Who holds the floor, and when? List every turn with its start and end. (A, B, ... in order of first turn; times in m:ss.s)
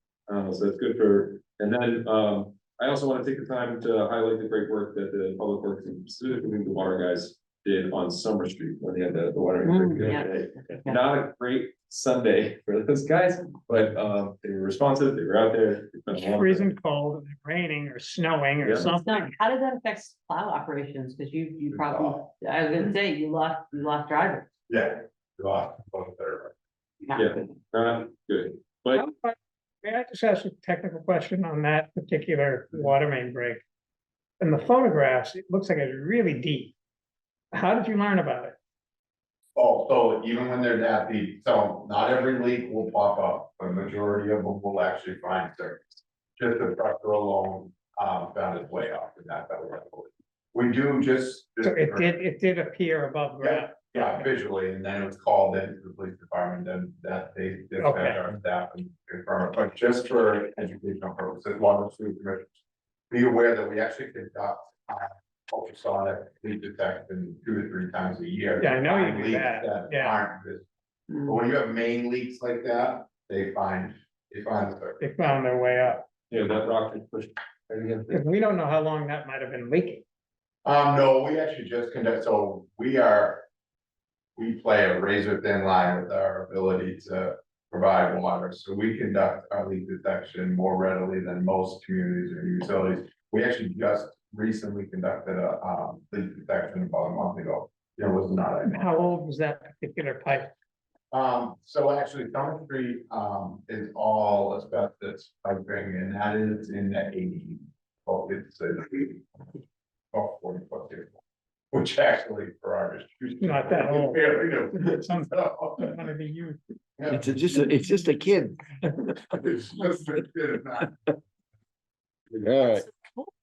0:00.3-0:16.7 A
0:09.6-0:10.9 B
0:16.1-0:19.3 C
0:18.6-0:18.9 A
0:18.9-0:24.5 B
0:21.7-0:22.3 D
0:24.7-0:26.5 D
0:27.1-0:29.1 A
0:28.9-0:33.6 C
0:34.4-0:36.7 C
0:37.5-0:38.5 C
0:39.6-0:52.2 D
0:51.6-0:54.2 C
0:53.4-1:02.6 D
0:57.8-0:58.3 C
1:03.1-1:10.6 D
1:08.6-1:10.2 C
1:11.2-1:15.0 D
1:15.0-1:16.0 C
1:16.3-1:18.2 A
1:18.1-1:20.0 C
1:20.6-1:23.4 D
1:24.4-1:38.8 D
1:38.6-1:40.5 C
1:41.1-1:49.4 D
1:50.1-1:51.2 D
1:51.7-1:56.0 D
1:53.4-1:56.6 C
1:57.0-1:57.3 D
1:57.1-1:58.6 E
1:59.2-2:00.9 D
2:02.4-2:03.1 E